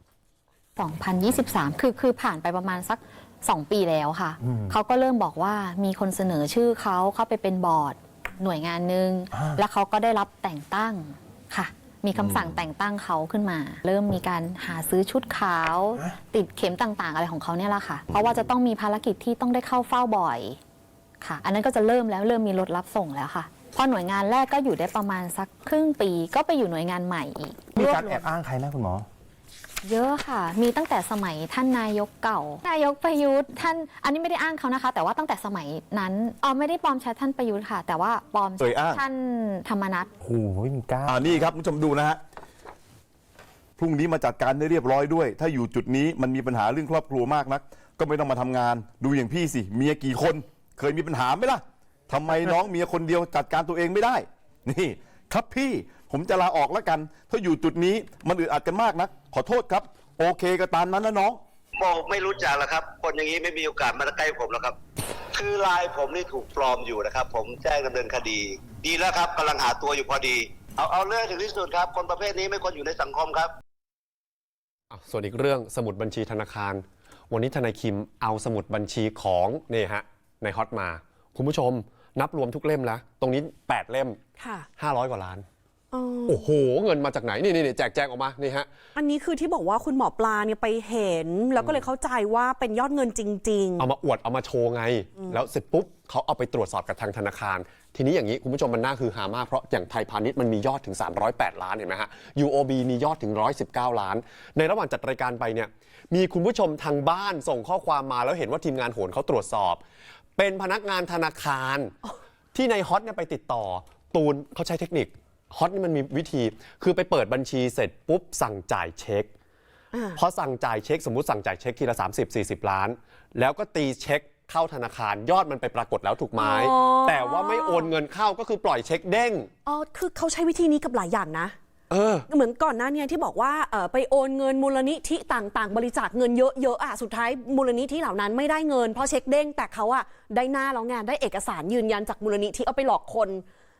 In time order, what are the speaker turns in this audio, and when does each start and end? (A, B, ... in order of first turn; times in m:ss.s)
0:00.8-0:20.6 A
0:21.2-0:28.1 A
0:27.8-0:29.1 B
0:29.8-0:40.1 A
0:38.6-0:39.0 C
0:40.2-0:41.5 B
0:41.1-0:42.2 C
0:43.8-1:01.4 C
1:01.8-1:04.8 D
1:05.3-1:13.5 D
1:14.9-1:24.2 E
1:24.4-1:24.7 F
1:24.8-1:25.4 E
1:25.9-1:26.4 F
1:26.3-1:28.7 E
1:29.0-1:33.9 F
1:33.8-1:49.8 E
1:50.4-1:51.9 E
1:52.5-1:59.3 E
1:59.9-2:00.2 F
2:00.2-2:09.5 E
2:06.4-2:07.9 F
2:09.7-2:11.6 F
2:11.9-2:12.2 E
2:12.3-2:23.4 F